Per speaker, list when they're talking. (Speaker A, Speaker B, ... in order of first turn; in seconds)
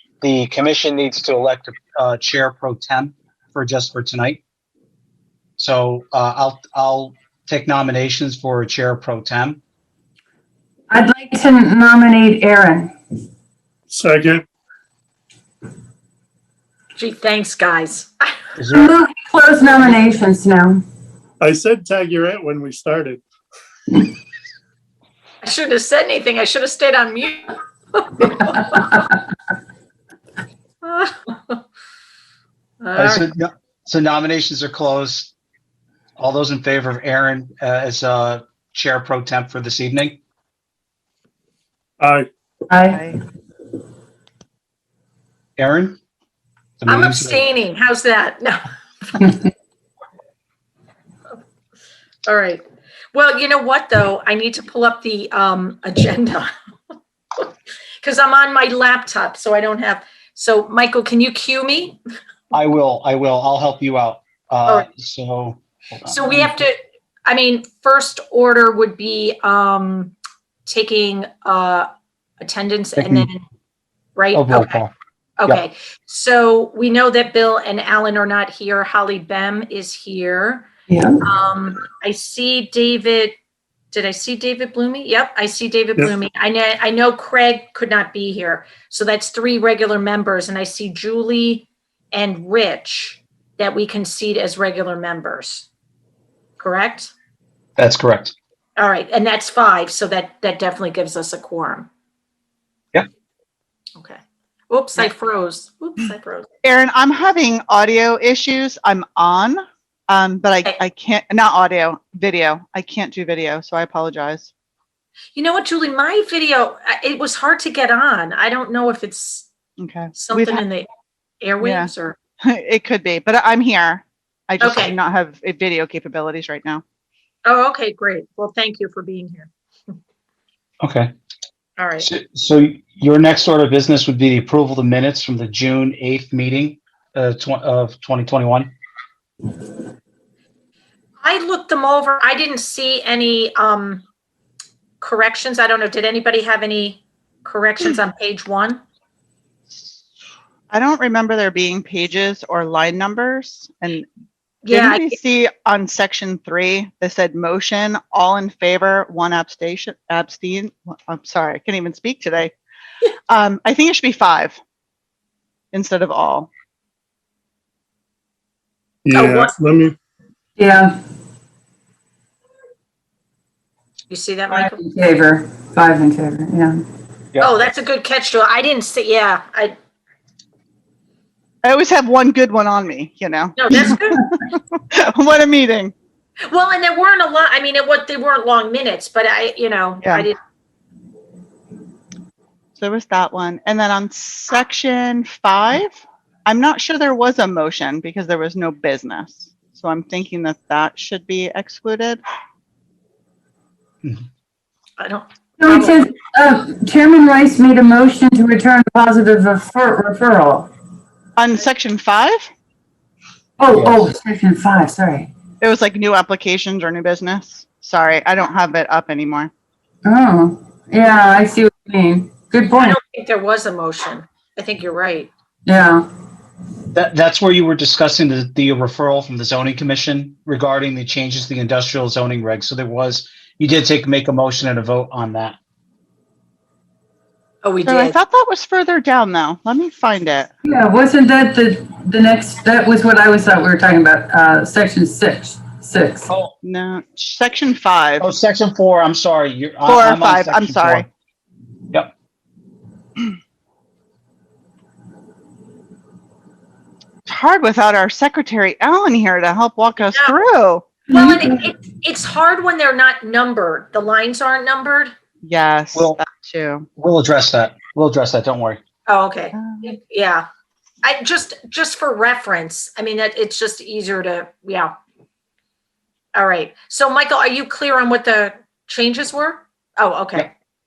Speaker A: 0.2-4.4, 5.6-9.6, 18.6-18.9, 33.0-35.3, 36.2-40.2, 45.6-46.0, 46.8-47.4, 62.5-66.6, 73.0-73.3, 74.3-74.9, 97.8-98.3, 130.8-131.1, 132.0-138.7, 213.7-214.1, 226.9-235.6, 246.3-246.5, 248.2-251.1, 267.0-268.8
Speaker B: 10.9-12.9, 18.7-20.8, 42.7-43.0, 80.9-81.3, 170.6-170.9, 174.5-176.8, 205.6-210.7, 213.6-215.3, 220.0-223.0, 225.7-226.0, 240.6-246.3, 261.1-261.5
Speaker C: 13.9-14.4, 21.4-23.2, 42.0-42.3, 169.0-169.9
Speaker D: 16.9-18.4, 25.4-28.9, 30.8-31.6, 32.8-33.3, 46.9-49.3, 52.2-56.5, 58.0-62.0, 66.0-66.7, 67.2-70.1, 70.7-71.9, 72.4-73.4, 74.2-74.8, 75.4-80.7, 81.2-83.3, 83.9-95.7, 96.6-97.1, 98.8-101.9, 104.0-106.5, 115.3-119.5, 120.1-120.9, 121.4-122.2, 124.6-125.0, 127.4-129.9, 131.8-132.1, 141.2-144.0, 145.0-148.8, 154.6-155.2, 169.1-169.5, 174.1-174.7, 177.4-179.8, 183.6-184.2, 186.5-190.4, 205.0-206.0, 222.7-225.3, 237.6-238.2, 260.1-260.4, 261.1-265.1, 269.1-270.4, 271.0-274.9, 276.3-280.5
Speaker E: 42.9-43.2, 106.6-114.5, 119.8-120.6, 121.6-121.9, 122.4-126.8, 149.7-150.0, 150.7-154.1, 154.7-162.5, 163.3-164.6, 165.7-166.5, 181.6-185.9, 190.0-190.3, 192.8-202.2, 211.4-212.5, 215.6-219.5, 237.8-240.5, 246.6-248.2, 249.8-251.1, 257.3-260.9, 265.4-266.9, 269.5-269.9